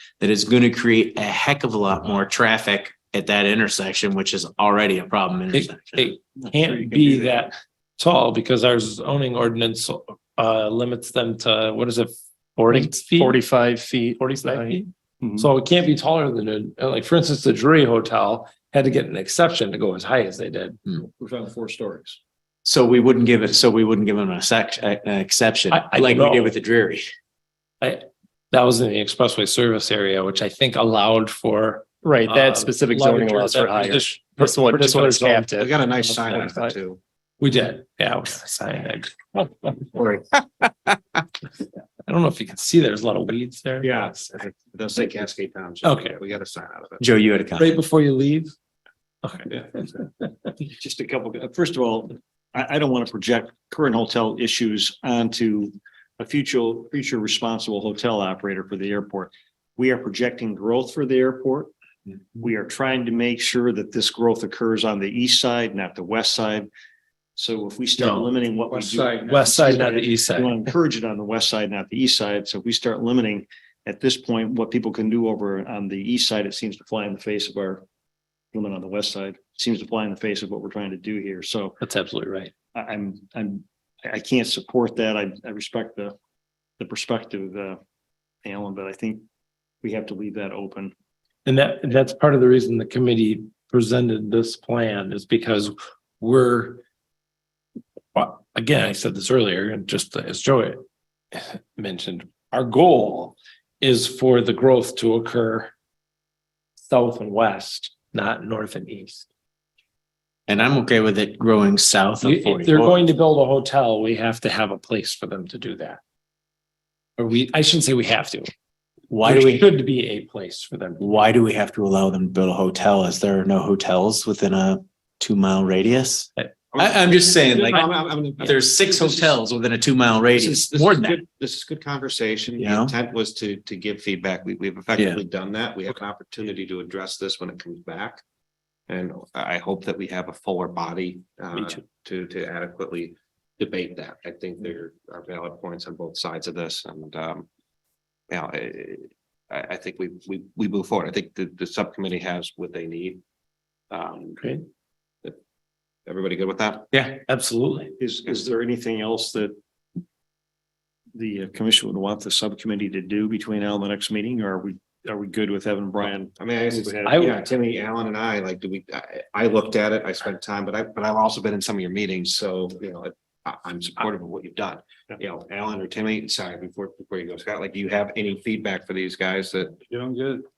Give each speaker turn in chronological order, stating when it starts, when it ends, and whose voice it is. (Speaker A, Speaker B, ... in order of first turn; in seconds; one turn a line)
Speaker A: 0.2-6.1
Speaker B: 5.5-13.4
Speaker C: 6.6-7.5
Speaker D: 12.7-15.4
Speaker B: 14.4-20.8
Speaker E: 20.9-22.2
Speaker A: 22.6-27.1
Speaker B: 25.7-26.5
Speaker B: 27.8-35.5
Speaker D: 32.0-35.7
Speaker C: 35.6-37.0
Speaker B: 36.0-36.6
Speaker B: 37.4-39.9
Speaker C: 40.0-40.2
Speaker B: 42.0-44.4
Speaker C: 43.8-47.0
Speaker B: 45.8-46.2
Speaker A: 47.0-47.7
Speaker B: 47.6-48.5
Speaker B: 49.2-50.1
Speaker E: 50.6-61.7
Speaker E: 62.4-66.7
Speaker E: 67.3-77.8
Speaker B: 68.0-70.6
Speaker E: 78.5-81.8
Speaker B: 81.8-82.5
Speaker E: 82.7-86.1
Speaker E: 86.8-87.8
Speaker E: 88.4-89.2
Speaker E: 89.8-90.9
Speaker B: 91.5-96.8
Speaker B: 98.1-105.7
Speaker B: 106.9-109.3
Speaker A: 110.5-113.0
Speaker B: 112.2-116.0
Speaker B: 117.2-118.5
Speaker A: 119.1-119.6
Speaker B: 119.2-121.1
Speaker A: 121.0-127.8
Speaker C: 126.7-129.4
Speaker A: 128.4-131.2
Speaker C: 130.3-138.2
Speaker A: 132.6-132.9
Speaker C: 138.9-147.4
Speaker C: 148.3-153.2
Speaker C: 153.9-154.4
Speaker C: 156.1-156.9
Speaker B: 156.9-157.9
Speaker E: 158.0-159.5
Speaker E: 161.1-167.3
Speaker C: 166.4-179.8
Speaker B: 167.0-167.4